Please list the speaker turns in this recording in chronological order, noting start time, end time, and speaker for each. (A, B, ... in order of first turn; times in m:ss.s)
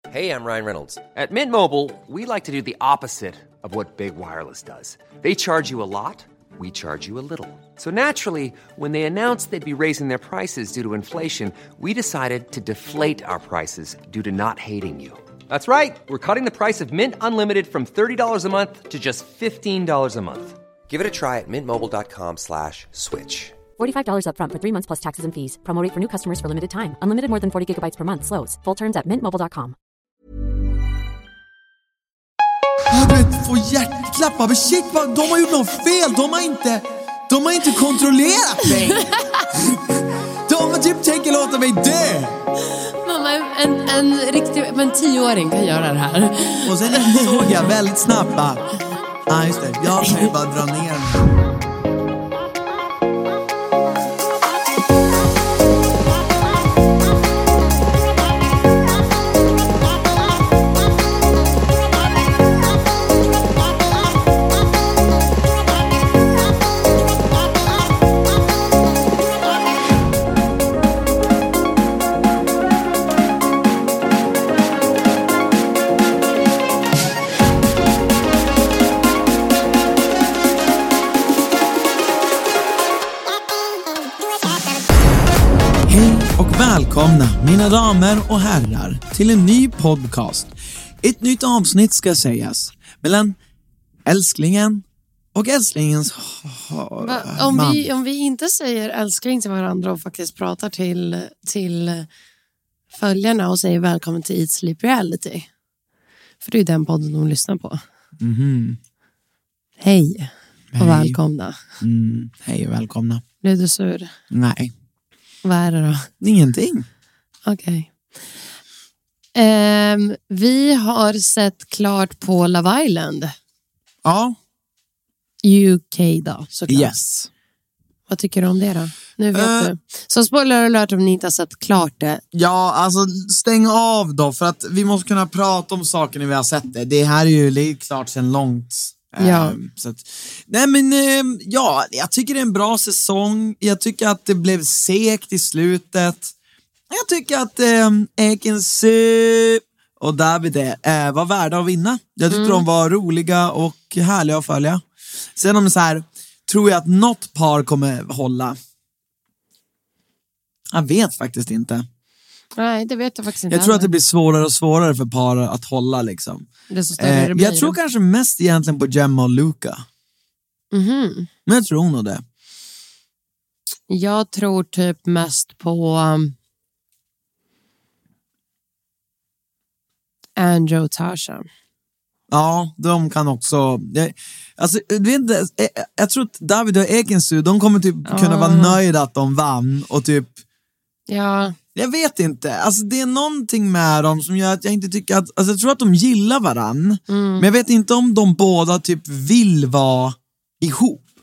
0:00.1-0:23.6 A
0:23.8-0:29.8 B
0:32.9-0:42.4 C
0:38.9-0:39.5 D
0:43.0-0:47.6 D
0:46.6-0:48.6 C
0:49.3-0:51.3 C
0:50.0-0:50.3 D
1:25.9-1:33.4 C
1:34.1-1:34.8 C
1:35.4-1:37.8 C
1:37.0-1:42.1 D
1:42.9-1:45.5 D
1:46.4-1:47.8 D
1:48.2-1:48.8 C
1:49.8-1:51.6 D
1:50.7-1:51.2 C
1:51.8-1:53.2 C
1:53.4-1:54.1 D
1:54.3-1:54.7 C
1:55.4-1:56.1 D
1:56.2-1:56.9 C
1:57.5-1:57.9 D
1:59.4-2:03.3 D
2:04.0-2:04.4 C
2:05.4-2:07.0 D
2:06.7-2:07.3 C
2:08.1-2:12.2 D
2:09.3-2:09.7 C
2:12.3-2:26.3 C
2:19.2-2:19.6 D
2:26.9-2:34.8 C
2:32.3-2:32.7 D
2:35.4-2:38.6 C
2:40.7-2:41.9 C
2:42.6-2:43.9 D
2:43.5-2:46.5 C
2:46.7-2:47.8 D
2:47.0-2:49.8 C
2:50.7-2:51.3 D
2:51.5-2:52.2 C
2:53.9-2:56.4 D
3:00.4-3:01.4 D
3:02.3-3:10.4 C
3:08.1-3:08.8 D
3:11.1-3:11.6 D
3:11.8-3:21.0 C
3:17.1-3:17.5 D